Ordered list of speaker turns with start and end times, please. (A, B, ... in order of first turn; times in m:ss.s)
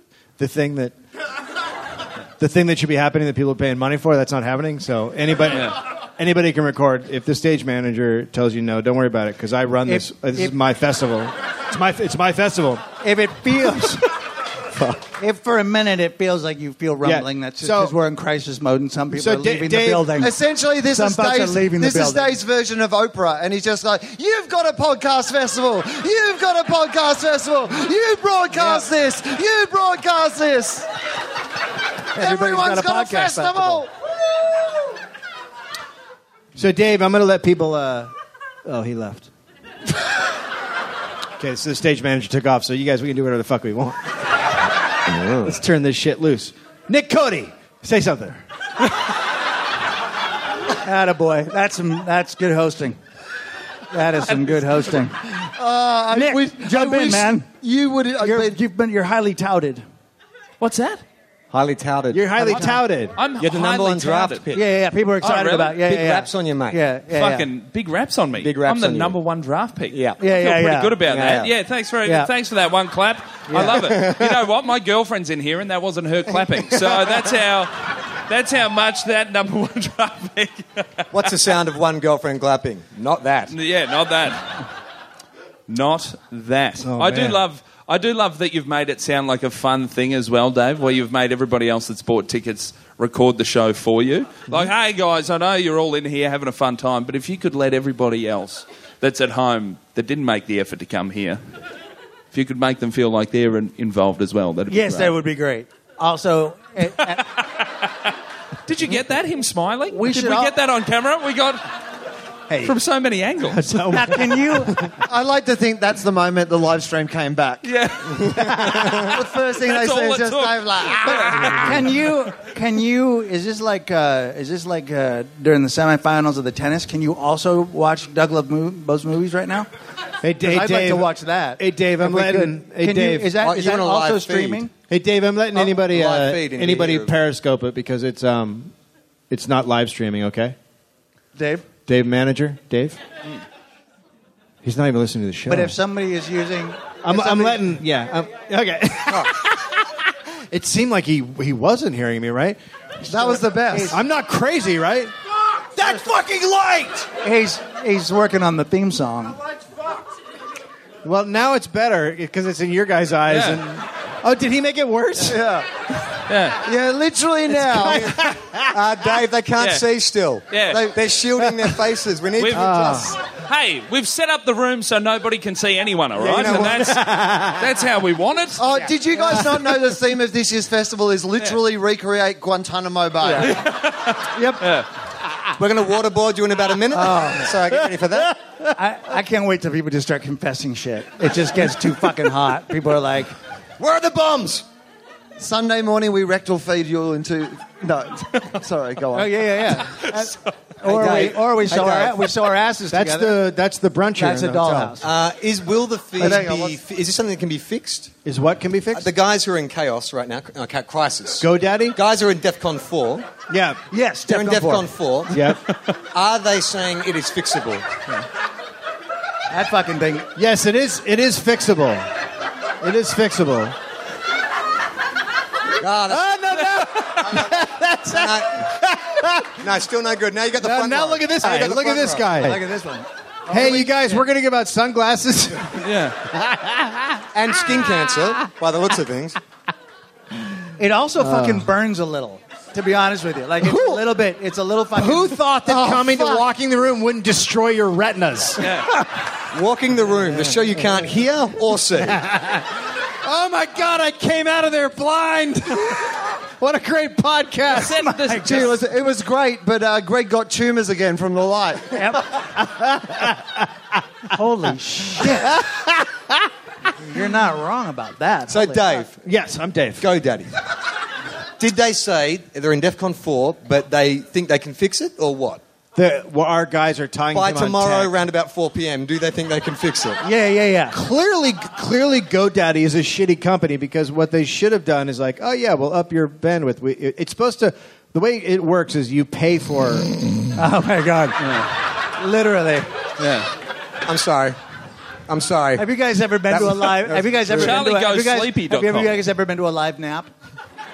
0:00.4-0:00.9 A
0:02.4-0:12.8 A
0:09.8-0:10.5 B
0:13.0-0:14.0 B
0:15.2-0:20.3 B
0:17.0-0:17.9 A
0:19.1-0:20.2 A
0:20.2-0:30.9 C
0:20.9-0:22.4 B
0:28.5-0:28.9 B
0:32.1-0:33.8 B
0:32.1-0:33.9 C
0:36.5-0:38.1 A
0:38.6-0:39.3 A
0:41.4-0:44.2 A
0:45.4-0:48.4 A
0:50.8-0:53.0 B
0:53.9-0:55.2 B
0:55.3-0:58.6 C
0:56.1-0:57.5 B
0:58.2-0:59.8 B
1:00.6-1:01.0 D
1:01.5-1:02.7 E
1:02.1-1:03.2 A
1:02.4-1:02.7 B
1:03.2-1:04.4 D
1:03.4-1:04.7 E
1:04.5-1:07.5 B
1:05.2-1:05.8 D
1:05.8-1:06.8 E
1:07.1-1:21.1 D
1:08.4-1:09.2 E
1:09.9-1:10.2 E
1:10.2-1:11.0 B
1:11.1-1:11.5 E
1:12.0-1:12.3 B
1:13.5-1:13.8 B
1:13.8-1:14.4 E
1:16.3-1:17.1 E
1:21.1-1:23.6 E
1:23.5-1:24.6 D
1:25.7-1:41.4 D
1:26.8-1:27.4 A
1:42.3-1:45.2 D
1:44.7-1:47.2 B
1:47.0-1:47.6 D
1:48.6-1:51.6 D
1:49.9-1:50.5 B
1:52.5-1:52.8 A
1:52.6-1:53.6 D
1:53.5-1:55.0 A
1:53.9-1:54.9 B
1:55.0-1:57.7 C
1:57.6-2:01.8 D
1:58.2-1:59.0 A
1:59.0-2:01.8 C
2:01.6-2:09.7 B
2:10.2-2:13.3 A
2:10.4-2:14.7 B
2:13.4-2:14.7 E
2:14.9-2:18.7 A
2:15.5-2:17.1 E
2:19.3-2:20.6 A
2:21.4-2:21.6 B
2:21.9-2:23.0 A
2:24.6-2:25.8 A
2:25.5-2:27.7 B
2:27.0-2:35.1 A
2:33.0-2:34.0 C
2:33.1-2:34.0 B
2:35.8-2:36.3 B
2:35.8-2:37.1 A
2:37.0-2:39.4 B
2:41.0-2:45.4 A
2:43.3-2:43.6 D
2:45.2-2:45.7 C
2:46.3-2:46.6 D
2:46.6-2:48.2 C
2:47.5-2:48.8 A
2:47.8-2:53.1 E
2:49.6-2:49.8 D
2:50.5-2:50.9 D
2:50.7-2:51.0 C
2:52.4-2:58.7 D
2:52.5-2:53.1 A
2:56.2-2:57.8 A
2:56.3-2:56.7 E
2:58.6-3:03.6 C
2:58.7-2:59.4 B
3:03.2-3:03.7 B
3:03.4-3:04.9 D
3:04.3-3:04.7 B
3:05.6-3:08.3 E
3:06.9-3:07.5 B
3:08.7-3:13.3 B
3:13.8-3:14.6 E
3:15.4-3:19.8 C
3:19.1-3:23.4 B
3:20.8-3:22.2 E
3:22.9-3:25.0 A
3:24.2-3:25.0 B
3:25.0-3:28.2 E
3:26.2-3:26.8 C
3:28.2-3:29.1 A
3:28.9-3:33.3 E
3:31.4-3:32.0 A
3:33.5-3:33.8 A
3:33.9-3:34.8 B
3:34.2-3:35.5 E
3:35.3-3:35.6 A
3:36.1-3:37.8 E
3:39.5-3:40.3 B
3:40.3-3:42.0 A
3:42.8-3:43.8 A
3:45.8-3:46.2 E
3:46.1-3:49.7 A
3:47.3-3:48.6 E
3:49.6-3:52.9 E
3:50.6-3:52.6 A
3:52.4-3:54.2 B
3:53.5-3:57.2 A
3:55.8-3:56.2 D
3:57.3-3:59.4 E
4:00.8-4:05.4 B
4:01.2-4:01.7 A
4:03.6-4:04.0 A
4:04.9-4:08.8 A
4:05.6-4:06.4 C
4:08.6-4:08.9 D
4:09.5-4:12.2 E
4:12.0-4:18.0 A
4:17.7-4:18.8 D
4:17.8-4:18.8 B
4:18.4-4:22.3 C
4:21.9-4:22.2 B
4:22.5-4:23.7 A
4:24.3-4:25.4 B
4:25.2-4:26.3 A
4:27.0-4:28.8 B
4:28.5-4:29.2 E
4:29.2-4:30.1 A
4:30.0-4:30.5 E
4:31.6-4:35.6 E
4:35.9-4:38.1 A
4:37.3-4:40.2 E
4:40.2-4:41.0 B
4:40.9-4:50.1 A
4:50.6-4:52.9 B
4:51.4-4:51.7 D
4:53.2-4:53.5 D
4:54.0-4:54.6 E
4:55.3-4:55.9 E
4:55.8-5:00.3 B
4:56.5-4:57.8 E
4:57.5-4:59.2 D